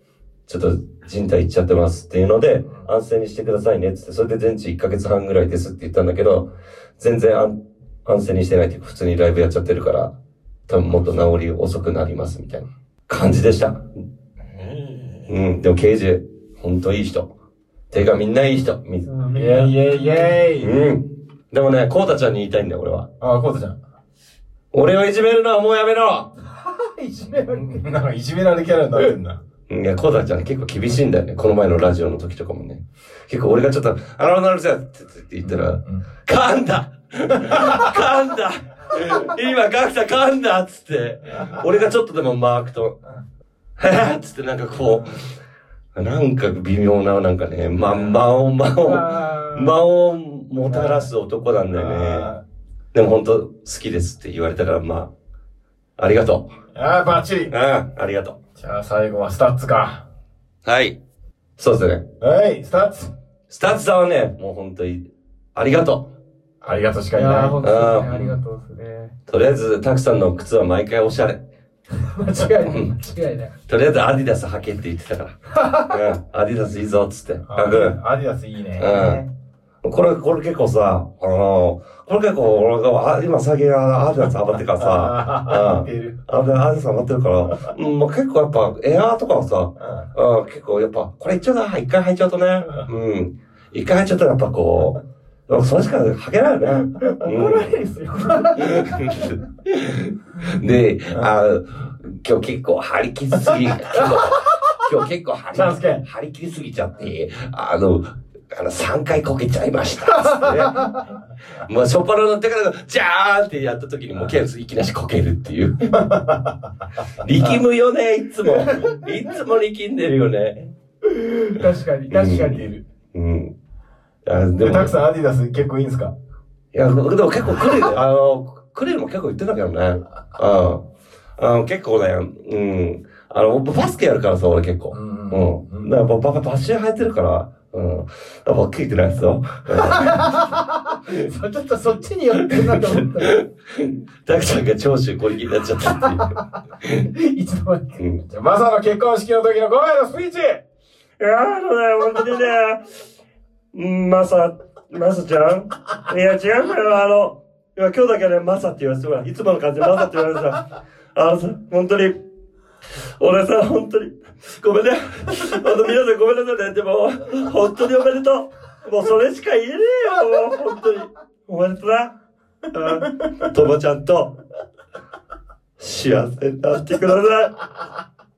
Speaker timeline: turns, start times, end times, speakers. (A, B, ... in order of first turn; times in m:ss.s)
0:00.5-0:06.5 A
0:07.0-0:10.1 A
0:10.7-0:13.8 A
0:10.9-0:11.2 B
0:14.5-0:15.3 B
0:15.3-0:17.3 A
0:17.9-0:19.1 A
0:19.1-0:20.4 C
0:19.3-0:20.7 B
0:20.6-0:23.1 A
0:23.2-0:23.8 B
0:24.7-0:26.3 A
0:26.4-0:28.0 C
0:27.5-0:29.4 B
0:29.7-0:43.0 A
0:35.4-0:36.0 B
0:37.4-0:37.9 B
0:43.8-0:45.3 A
0:45.9-0:52.3 A
0:47.8-0:48.2 B
0:48.8-0:49.7 C
0:50.7-0:51.0 B
0:51.7-0:52.4 B
0:52.9-0:55.1 A
0:56.0-0:56.5 A
0:56.7-0:57.5 B
0:57.5-0:58.4 A
0:58.6-1:00.0 B
1:00.6-1:01.0 A
1:01.6-1:02.0 A
1:02.2-1:03.1 B
1:03.5-1:05.0 A
1:05.5-1:06.1 A
1:06.6-1:07.6 B
1:07.1-1:09.1 C
1:07.6-1:08.3 A
1:08.1-1:08.3 B
1:09.3-1:11.4 A
1:12.0-1:13.5 C
1:12.6-1:13.0 A
1:13.7-1:15.3 A
1:15.5-1:16.0 C
1:15.9-1:18.0 A
1:17.5-1:19.3 B
1:18.8-1:19.2 A
1:19.8-1:35.0 A
1:24.8-1:26.2 B
1:29.8-1:30.1 B
1:35.5-1:37.7 A
1:37.0-1:39.4 C
1:38.6-1:50.9 A
1:43.9-1:44.8 C
1:45.5-1:46.0 B
1:50.1-1:51.0 C
1:51.5-1:55.9 A
1:55.9-1:57.6 B
1:57.2-2:00.7 A
1:58.5-1:58.9 C
2:01.1-2:02.7 C
2:02.1-2:02.6 A
2:03.1-2:03.5 A
2:04.2-2:04.9 A
2:04.6-2:06.1 B
2:06.7-2:10.8 A
2:11.4-2:20.5 A
2:14.9-2:15.9 B
2:19.7-2:23.4 C
2:22.3-2:27.1 A
2:26.0-2:26.3 C
2:27.0-2:28.0 C
2:28.0-2:28.2 A
2:28.3-2:30.6 B
2:31.2-2:32.8 A
2:33.7-2:40.6 A
2:41.1-2:42.2 A
2:43.2-2:52.1 A
2:52.7-2:54.3 A
2:55.8-2:57.5 A